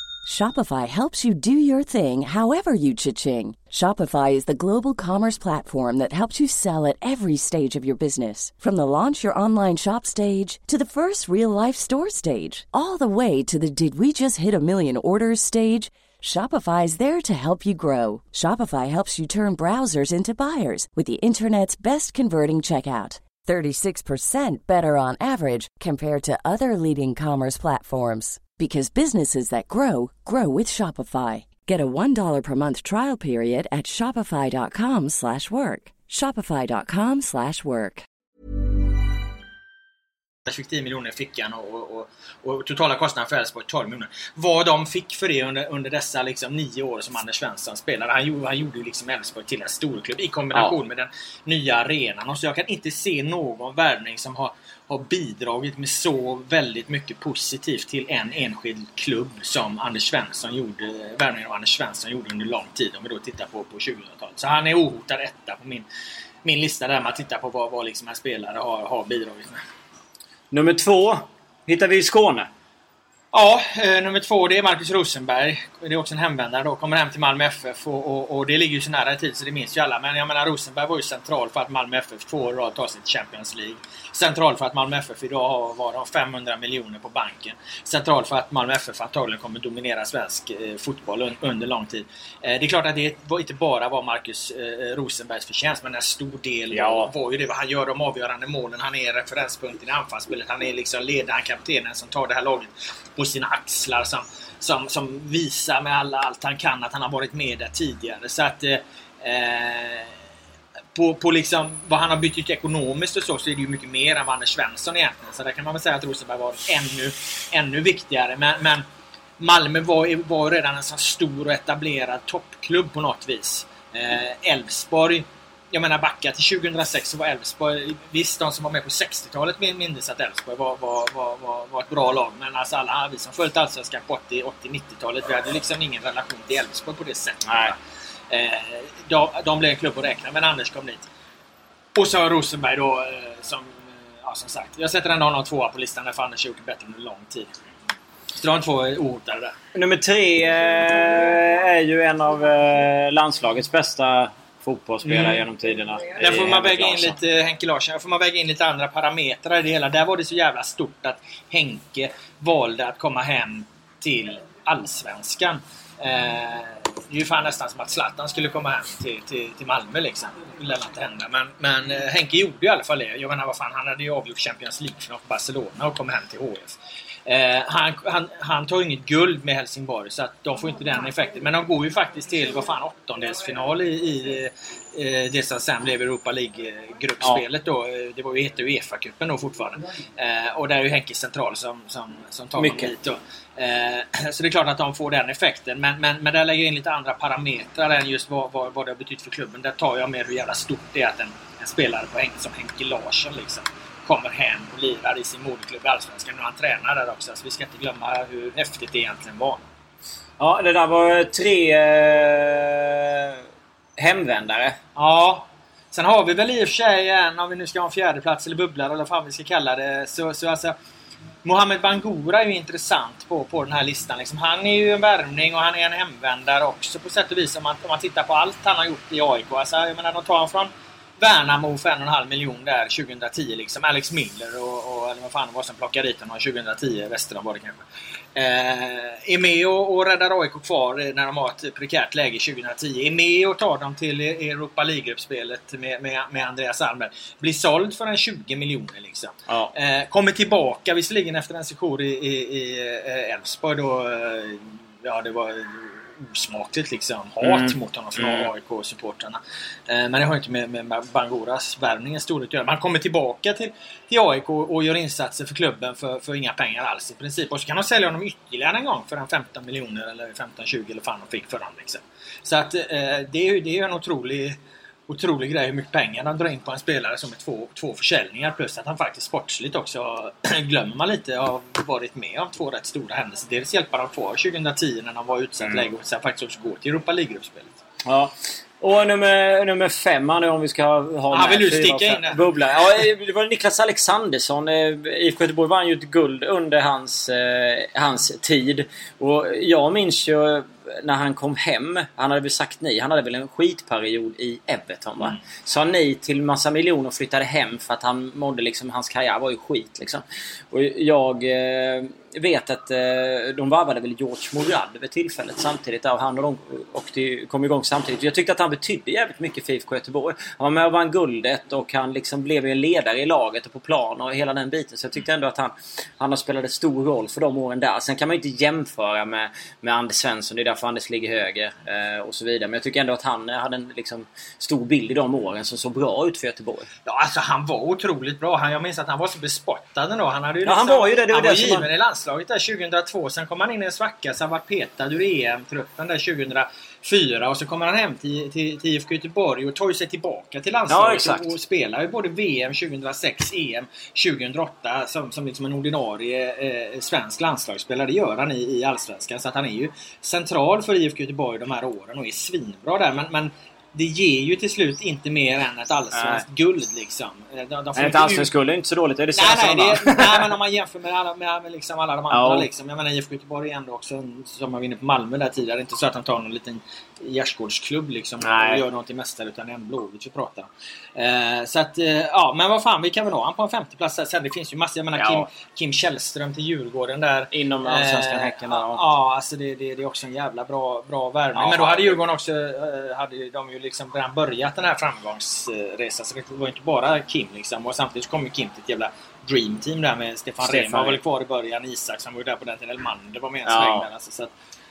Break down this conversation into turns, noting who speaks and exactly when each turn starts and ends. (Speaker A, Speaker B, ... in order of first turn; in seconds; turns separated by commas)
Speaker A: 0.2-38.0, Speaker B: 40.4-65.9, Speaker B: 66.4-69.6, Speaker C: 70.5-72.5, Speaker B: 73.3-110.2, Speaker C: 96.7-97.1, Speaker B: 110.9-118.8, Speaker B: 119.4-137.8, Speaker C: 137.4-137.7, Speaker B: 138.3-141.1, Speaker B: 141.9-147.5, Speaker B: 148.3-149.6, Speaker C: 149.7-157.2, Speaker B: 155.0-155.4, Speaker B: 156.2-209.6, Speaker C: 192.6-192.9, Speaker C: 210.4-213.4, Speaker C: 214.0-214.8, Speaker B: 214.9-220.7, Speaker B: 221.4-237.8, Speaker B: 238.3-287.8, Speaker C: 257.4-258.5, Speaker C: 288.0-336.9, Speaker B: 291.3-292.4, Speaker B: 337.0-368.5, Speaker C: 340.6-341.9, Speaker C: 350.9-351.5, Speaker C: 366.1-366.4, Speaker C: 367.9-370.5, Speaker B: 369.3-404.5, Speaker C: 372.3-372.7, Speaker C: 378.4-378.8, Speaker C: 385.1-385.5, Speaker C: 387.5-389.0, Speaker C: 391.5-392.2, Speaker C: 400.6-401.2, Speaker C: 403.6-404.1